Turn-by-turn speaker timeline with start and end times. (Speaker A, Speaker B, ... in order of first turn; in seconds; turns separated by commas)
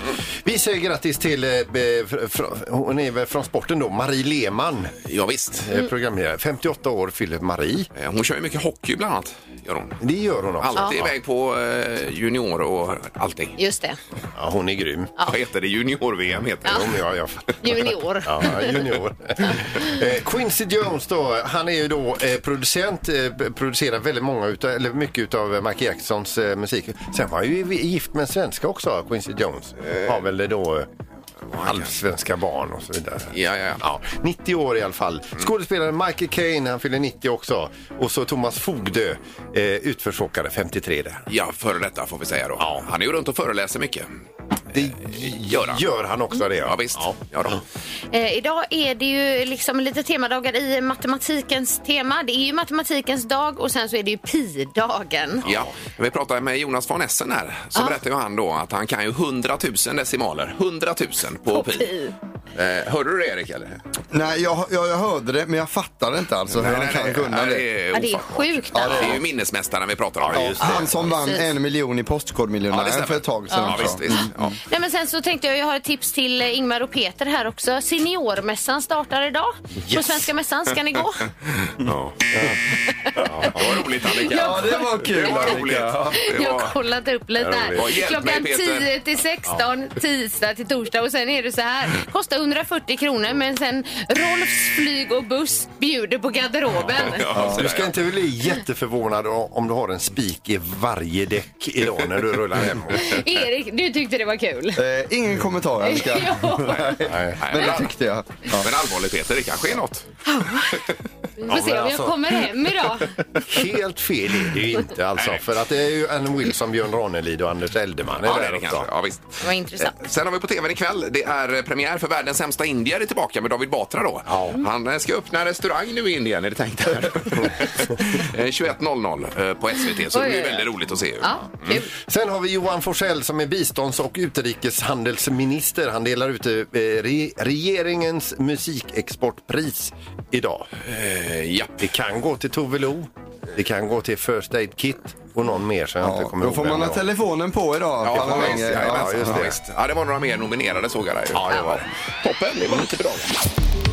Speaker A: 0.4-4.9, Speaker B: 5.0-5.7, Speaker A: 5.6-7.9, Speaker B: 7.9-10.0, Speaker A: 10.0-11.1, Speaker B: 10.6-13.6, Speaker C: 13.6-14.0, Speaker A: 14.3-15.1, Speaker B: 15.2-16.9, Speaker A: 16.6-30.9, Speaker C: 17.6-18.8, Speaker A: 31.5-41.2, Speaker B: 31.5-31.9, Speaker B: 33.3-33.8, Speaker B: 41.3-44.1, Speaker A: 42.6-42.9, Speaker A: 44.7-47.6, Speaker B: 45.1-45.8, Speaker B: 46.6-47.6, Speaker C: 48.1-55.4, Speaker B: 55.4-61.9, Speaker C: 61.5-62.1, Speaker B: 62.5-63.8, Speaker D: 64.1-67.7, Speaker B: 66.5-70.8, Speaker C: 67.9-69.2, Speaker D: 68.7-69.2, Speaker A: 70.2-71.1, Speaker D: 70.3-74.3, Speaker C: 70.6-71.5, Speaker B: 72.7-74.6, Speaker C: 73.5-81.2, Speaker A: 79.8-80.3, Speaker B: 81.6-82.2, Speaker A: 82.3-82.6, Speaker A: 83.2-83.6, Speaker B: 83.4-86.7, Speaker C: 84.2-85.6, Speaker D: 84.2-86.1, Speaker C: 86.1-97.3, Speaker A: 87.4-88.0, Speaker B: 87.7-88.9, Speaker B: 96.9-97.9, Speaker A: 97.3-103.2, Speaker C: 102.9-104.8, Speaker D: 104.8-108.7, Speaker C: 105.8-107.0, Speaker A: 107.0-107.5, Speaker B: 107.4-107.9, Speaker B: 108.5-110.1, Speaker C: 110.2-110.8, Speaker C: 111.4-113.1, Speaker A: 111.5-112.5, Speaker A: 113.4-118.9, Speaker B: 115.2-115.4, Speaker B: 118.2-131.8, Speaker C: 119.4-119.9, Speaker A: 124.3-124.6, Speaker C: 130.1-130.7, Speaker C: 131.2-131.9, Speaker A: 132.0-140.7, Speaker B: 140.8-141.9, Speaker A: 141.8-147.1, Speaker D: 146.0-149.5, Speaker B: 148.0-153.3, Speaker A: 148.1-149.6, Speaker A: 151.3-151.8